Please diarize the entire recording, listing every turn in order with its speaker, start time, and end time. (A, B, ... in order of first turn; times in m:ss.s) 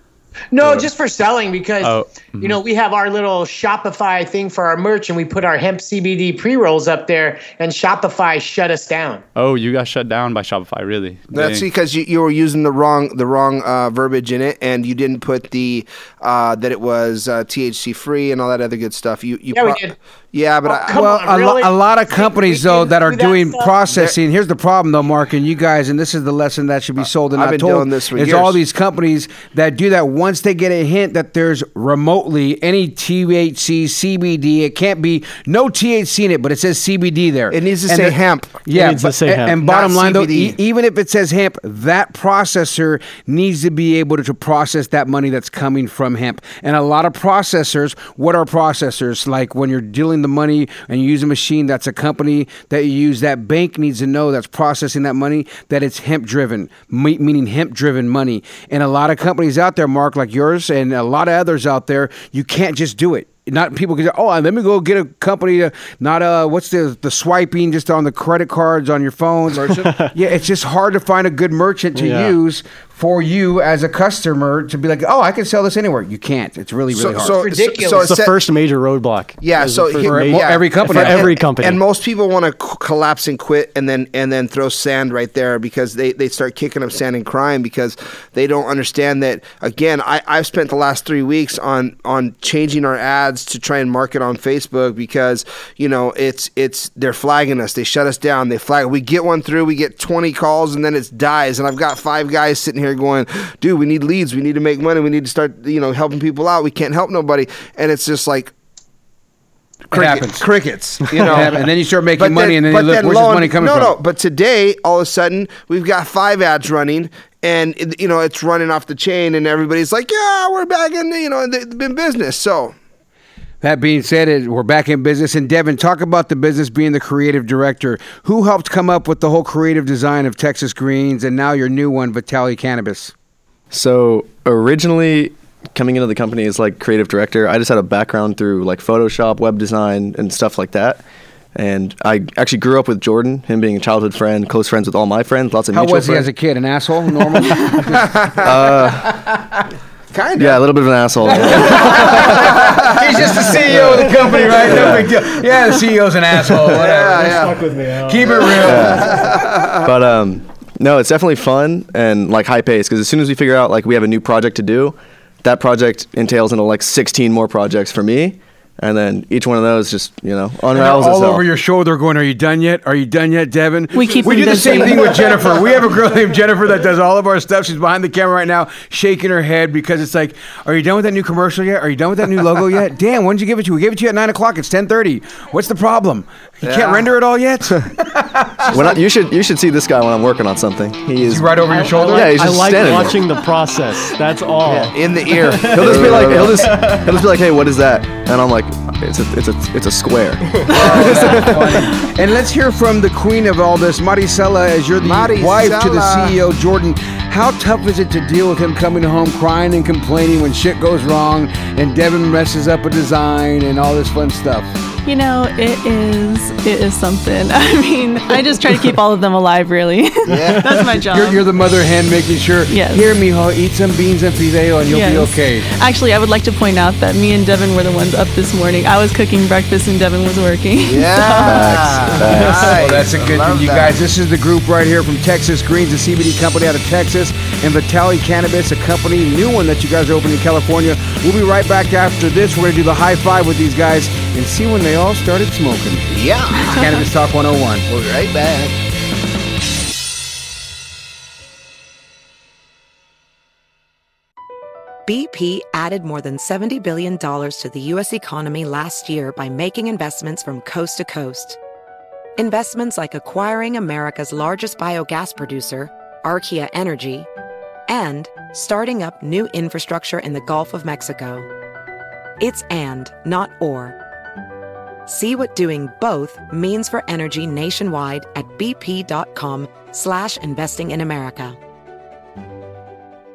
0:00.5-0:09.2 A
0:01.8-0:02.6 B
0:09.4-0:11.6 B
0:11.3-0:21.0 C
0:19.5-0:19.9 A
0:20.6-0:23.7 A
0:20.9-1:17.4 D
0:27.3-0:28.6 C
0:37.5-0:38.6 C
0:38.7-0:39.6 E
0:39.6-0:40.6 C
1:09.5-1:09.8 C
1:09.8-1:10.1 E
1:12.0-1:12.4 E
1:16.9-1:18.4 C
1:17.2-1:18.1 A
1:18.0-1:21.8 E
1:19.4-1:48.5 C
1:19.9-1:21.3 D
1:49.9-1:50.5 D
1:49.9-2:02.8 C
1:51.1-1:54.0 D
2:03.6-2:13.1 D
2:13.7-2:21.0 F
2:21.5-2:26.3 F
2:25.7-2:28.1 D
2:27.9-2:28.9 C
2:28.4-2:29.1 F
2:30.1-2:30.7 C
2:30.4-2:31.6 F
2:31.2-2:33.8 C
2:31.2-2:39.4 D
2:34.5-2:35.0 C
2:34.7-2:35.1 F
2:36.6-2:37.6 C
2:37.1-2:38.8 E
2:38.3-2:39.9 C
2:38.6-2:39.0 F
2:39.8-2:51.4 F
2:50.7-3:09.0 D
2:53.9-2:55.6 G
3:06.6-3:07.1 C
3:08.7-3:13.2 F
3:11.2-3:12.3 D
3:12.0-3:17.0 E
3:14.6-3:14.9 F
3:14.7-3:17.0 C
3:15.6-3:21.6 F
3:20.7-3:34.7 D
3:20.7-3:21.5 C
3:25.0-3:26.3 C
3:35.0-3:41.4 G
3:40.3-3:40.9 C
3:40.3-3:45.7 D
3:42.7-3:43.1 G
3:44.8-3:52.7 G
3:50.8-3:53.9 C
3:51.4-3:52.5 F
3:52.5-4:06.1 D
4:06.1-4:06.8 C
4:06.6-4:07.8 D
4:07.8-4:08.7 C
4:15.0-4:21.6 H
4:22.4-4:27.3 H
4:27.9-4:31.5 H
4:32.4-4:34.0 H
4:35.0-4:41.6 H